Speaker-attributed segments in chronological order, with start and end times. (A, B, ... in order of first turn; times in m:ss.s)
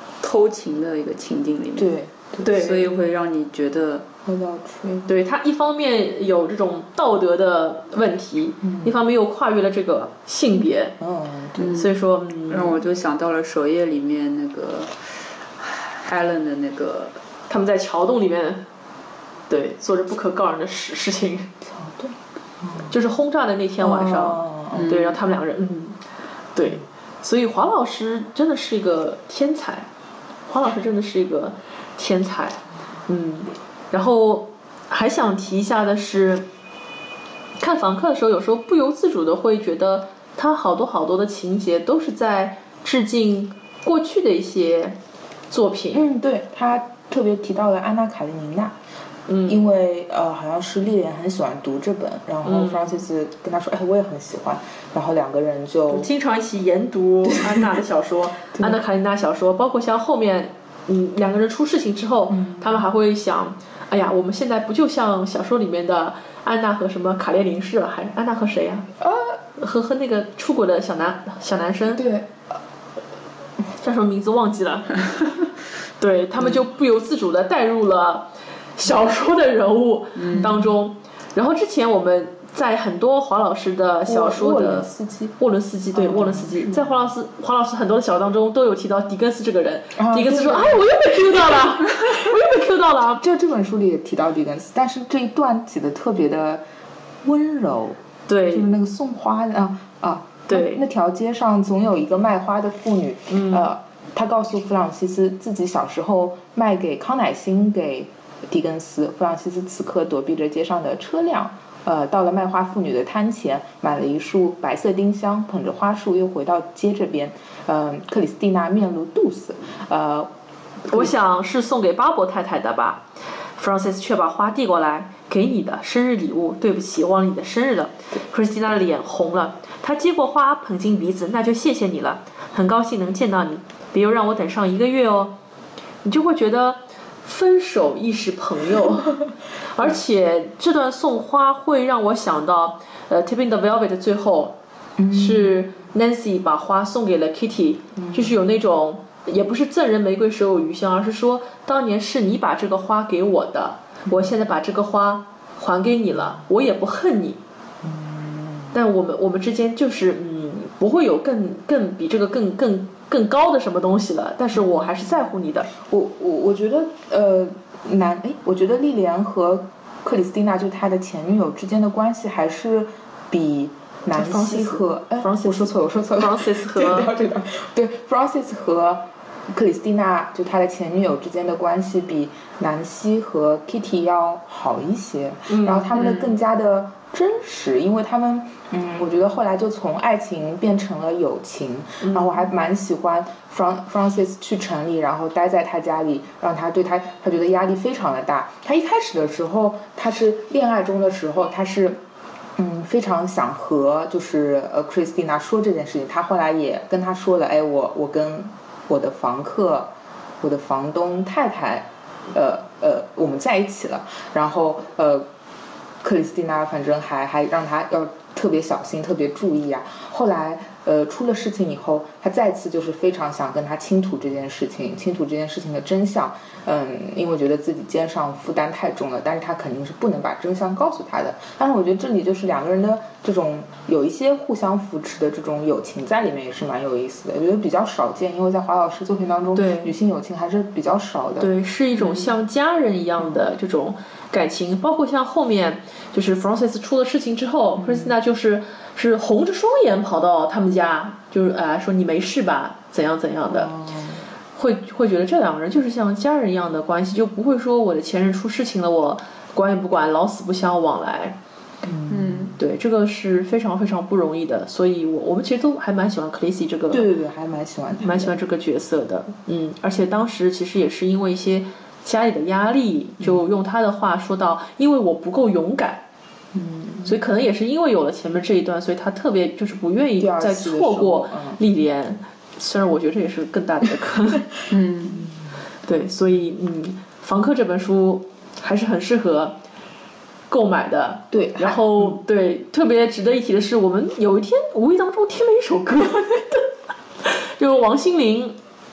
0:00.2-0:01.9 A
0:01.8-0:02.5 B
0:02.4-0:02.9 C
0:02.5-0:04.0 A
0:04.2-0:05.1 B
0:05.1-0:11.0 C
0:08.6-0:08.9 B
0:11.0-0:11.7 B
0:11.6-0:11.9 A
0:11.6-0:12.8 C
0:12.5-0:17.2 A
0:17.5-0:18.6 C
0:19.5-0:21.5 C
0:21.6-0:22.9 B
0:22.9-0:26.0 C
0:23.8-0:24.9 B
0:24.8-0:25.1 A
0:26.5-0:29.9 C
0:30.5-0:36.4 C
0:37.6-0:45.0 C
0:45.5-0:46.0 C
0:45.9-0:48.7 B
0:49.3-0:49.6 C
0:49.4-0:56.1 B
0:52.4-0:53.0 C
0:55.9-1:08.9 C
1:02.3-1:02.8 B
1:09.0-1:09.4 B
1:09.6-1:12.0 C
1:11.9-1:12.4 B
1:13.8-1:14.9 C
1:16.0-1:24.9 C
1:20.3-1:20.7 B
1:24.0-1:25.3 B
1:25.4-1:33.2 C
1:25.9-1:26.9 B
1:30.0-1:31.6 B
1:33.2-1:36.6 B
1:37.2-2:00.3 B
1:38.3-1:38.7 C
1:40.5-1:40.8 C
1:43.3-1:43.6 C
2:00.9-2:03.0 C
2:03.6-2:15.3 C
2:16.0-2:19.2 C
2:19.7-2:24.5 C
2:25.0-2:25.6 B
2:25.1-2:37.4 C
2:28.0-2:28.4 B
2:37.8-2:38.7 B
2:38.7-2:45.7 C
2:45.8-3:22.0 B
2:54.1-2:57.1 C
3:05.5-3:05.9 C
3:12.0-3:12.4 C
3:22.6-3:29.9 B
3:30.4-3:35.2 B
3:36.0-4:01.5 B
3:59.5-3:59.9 C
4:01.4-4:13.7 C
4:07.8-4:08.1 B
4:13.5-4:14.2 B
4:14.5-4:21.4 C
4:21.8-4:22.5 B
4:22.1-4:22.5 A
4:22.6-4:27.0 C
4:26.9-4:28.3 B
4:28.0-4:36.0 C
4:36.5-4:37.1 B
4:37.0-4:44.5 C
4:40.2-4:41.6 B
4:44.7-4:45.2 A
4:45.8-4:49.6 C
4:50.5-4:56.6 C
4:51.3-4:52.2 B
4:57.2-4:58.6 C